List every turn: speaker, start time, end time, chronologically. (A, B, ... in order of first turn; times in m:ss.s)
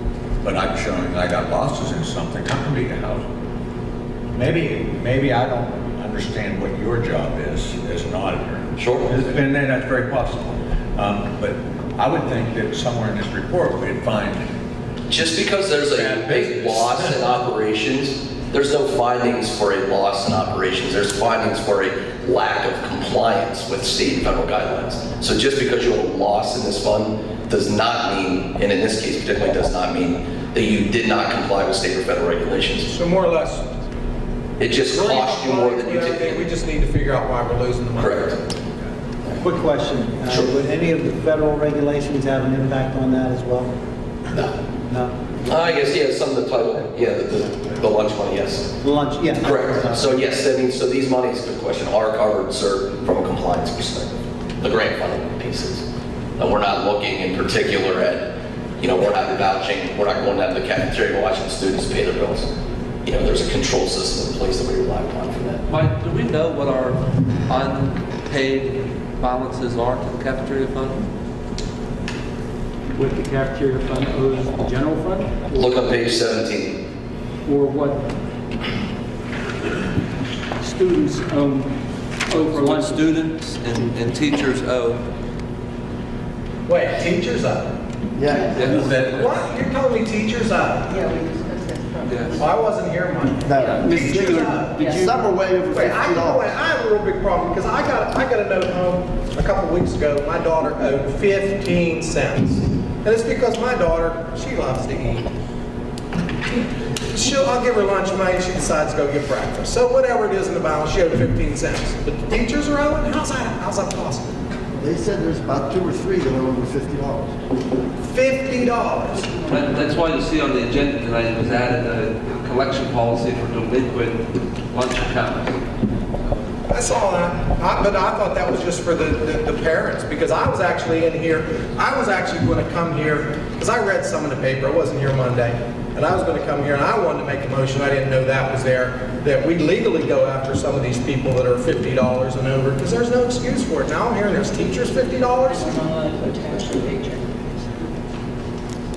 0:00.4-0:03.2 A
0:04.3-0:14.4 A
0:08.8-0:09.1 B
0:15.1-0:32.9 B
0:15.9-0:17.2 A
0:32.8-0:33.7 C
0:34.6-0:36.4 B
0:34.7-0:38.3 C
0:38.0-0:38.4 B
0:39.4-0:43.7 D
0:44.9-0:45.3 D
0:45.4-0:48.8 B
0:48.8-0:50.1 D
0:49.4-0:55.8 B
0:56.4-1:02.5 B
1:03.0-1:05.6 B
1:05.7-1:11.0 E
1:12.9-1:15.8 F
1:15.5-1:16.8 B
1:17.4-1:18.1 F
1:20.6-1:21.7 F
1:22.3-1:23.1 F
1:22.3-1:25.0 E
1:26.7-1:27.7 C
1:28.2-1:29.2 G
1:28.3-1:28.7 H
1:28.5-1:29.4 E
1:28.7-1:31.0 C
1:30.9-1:32.8 H
1:32.0-1:32.4 E
1:32.4-1:34.9 C
1:33.4-1:36.6 G
1:33.6-1:34.1 E
1:33.8-1:35.3 F
1:35.7-1:45.3 C
1:47.1-1:54.4 C
1:54.8-1:57.3 G
1:58.0-1:59.4 C
1:59.5-2:05.6 E
2:06.7-2:25.8 C
2:25.5-2:27.7 H